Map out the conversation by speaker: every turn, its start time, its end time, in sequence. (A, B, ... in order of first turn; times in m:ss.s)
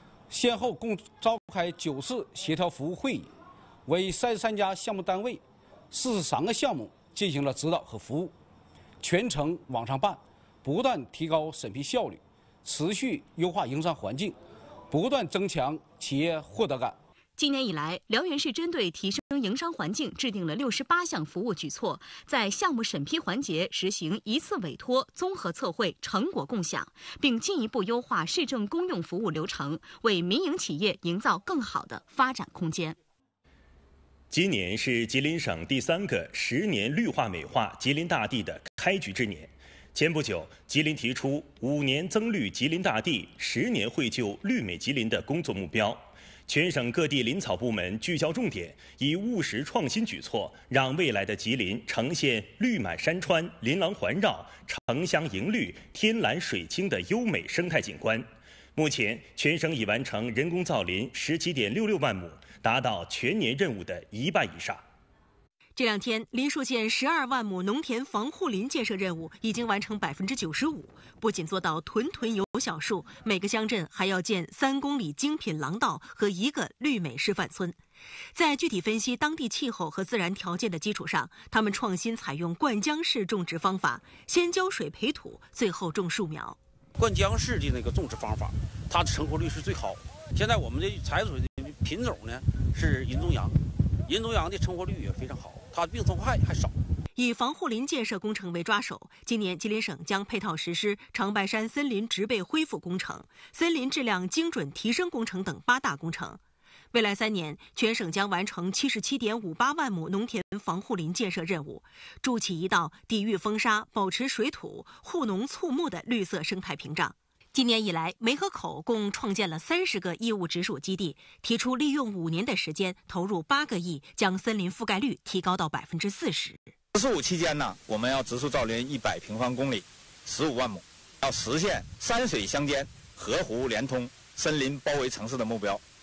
0:00.3-0:03.3 A
0:03.9-0:08.3 A
0:09.0-0:14.4 A
0:14.9-0:17.0 A
0:17.4-0:33.0 B
0:34.3-1:04.8 C
1:05.8-1:17.8 D
1:18.4-1:26.6 D
1:27.0-1:36.7 E
1:37.2-1:46.4 D
1:46.9-2:06.6 D
2:06.9-2:15.8 F